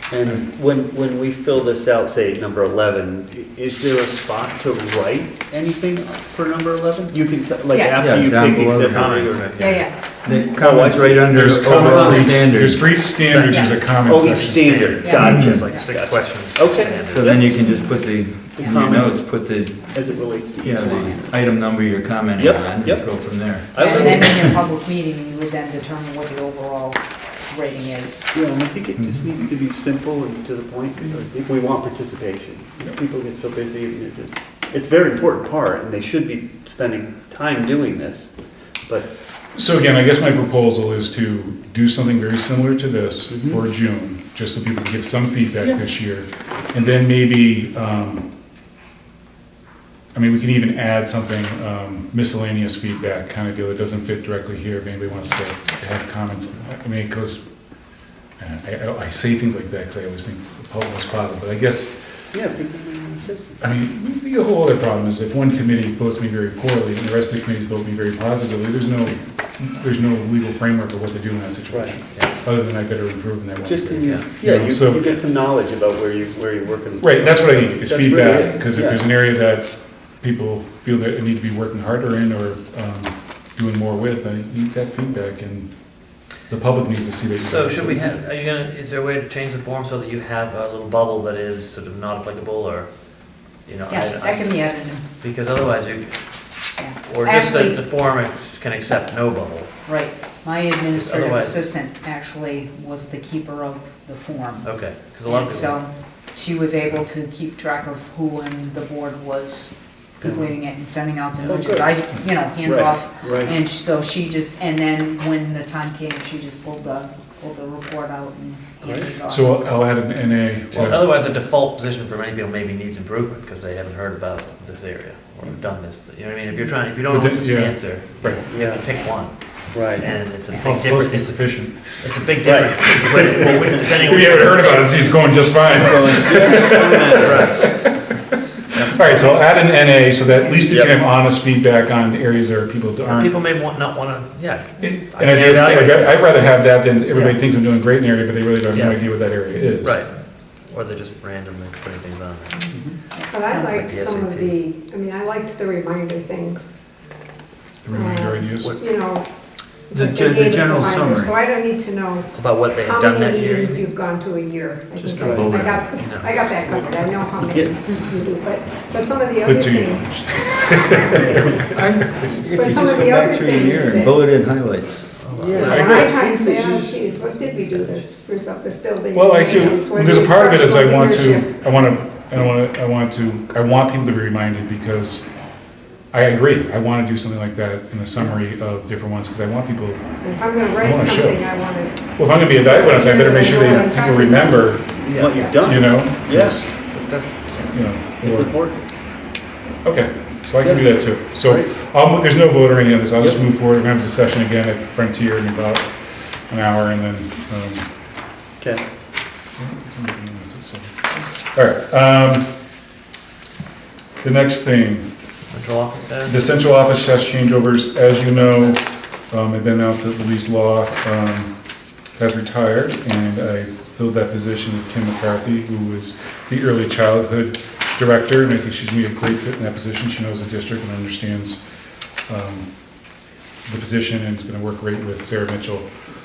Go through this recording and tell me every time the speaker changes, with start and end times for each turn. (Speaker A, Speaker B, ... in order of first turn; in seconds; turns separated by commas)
Speaker A: 0.1-9.9, Speaker B: 7.7-8.0, Speaker C: 7.9-9.1, Speaker D: 8.9-9.9, Speaker B: 9.6-9.9, Speaker C: 10.2-13.1, Speaker A: 10.6-12.3, Speaker E: 11.3-14.8, Speaker D: 13.4-17.6, Speaker B: 13.4-13.8, Speaker A: 14.1-17.4, Speaker B: 15.0-15.9, Speaker C: 15.2-15.6, Speaker C: 17.0-24.6, Speaker A: 18.5-19.3, Speaker B: 18.6-18.9, Speaker A: 19.9-21.4, Speaker A: 22.4-24.4, Speaker B: 23.8-28.3, Speaker A: 28.3-38.3, Speaker C: 29.0-29.3, Speaker E: 39.5-48.3, Speaker A: 43.3-43.6, Speaker E: 50.1-57.4, Speaker E: 58.4-61.9, Speaker A: 62.3-63.6, Speaker E: 63.6-75.1, Speaker A: 71.7-72.0, Speaker A: 73.6-79.0, Speaker D: 74.0-74.3, Speaker E: 77.0-88.1, Speaker D: 87.4-96.2, Speaker B: 93.9-95.0, Speaker B: 96.8-97.8, Speaker D: 97.0-99.7, Speaker B: 99.9-119.9, Speaker D: 101.0-101.7, Speaker D: 104.6-105.8, Speaker A: 110.2-110.5, Speaker A: 111.4-112.0, Speaker A: 112.6-113.5, Speaker A: 118.8-119.1, Speaker E: 119.3-121.1, Speaker D: 120.7-135.4, Speaker E: 127.1-128.4, Speaker A: 128.5-128.8, Speaker A: 129.7-130.1, Speaker E: 130.5-132.2, Speaker A: 132.4-133.9, Speaker E: 132.9-133.4, Speaker E: 134.0-137.4, Speaker C: 135.7-137.3, Speaker A: 135.9-137.6, Speaker D: 136.5-137.9, Speaker D: 138.8-139.2, Speaker E: 138.9-143.4, Speaker A: 140.7-141.0, Speaker D: 143.1-147.4, Speaker E: 144.8-150.1, Speaker D: 148.7-152.6, Speaker B: 152.9-153.8, Speaker F: 153.3-156.8, Speaker D: 153.6-154.6, Speaker E: 157.8-158.8, Speaker F: 157.9-159.3, Speaker D: 158.5-158.8, Speaker F: 159.8-162.3, Speaker C: 159.9-161.4, Speaker D: 162.3-163.9, Speaker F: 162.8-170.1, Speaker C: 165.0-165.9, Speaker A: 165.2-165.6, Speaker D: 165.8-166.5, Speaker A: 167.5-168.2, Speaker E: 169.4-171.7, Speaker A: 171.2-171.6, Speaker C: 171.7-175.2, Speaker F: 172.5-174.2, Speaker D: 175.2-176.2, Speaker A: 175.3-177.9, Speaker F: 175.5-181.5, Speaker E: 175.6-176.2, Speaker E: 179.1-185.3, Speaker D: 179.5-179.8, Speaker E: 186.1-198.7, Speaker F: 190.2-191.9, Speaker F: 192.7-194.7, Speaker A: 195.0-196.7, Speaker D: 195.1-195.4, Speaker D: 196.9-197.6, Speaker A: 198.2-198.8, Speaker E: 199.8-207.9, Speaker A: 200.6-201.7, Speaker A: 203.2-203.4, Speaker A: 208.6-208.8, Speaker E: 209.6-212.6, Speaker E: 214.2-215.1, Speaker D: 215.5-216.4, Speaker E: 216.2-221.5, Speaker D: 218.2-218.7, Speaker E: 222.2-231.6, Speaker E: 232.3-232.7, Speaker E: 233.6-235.9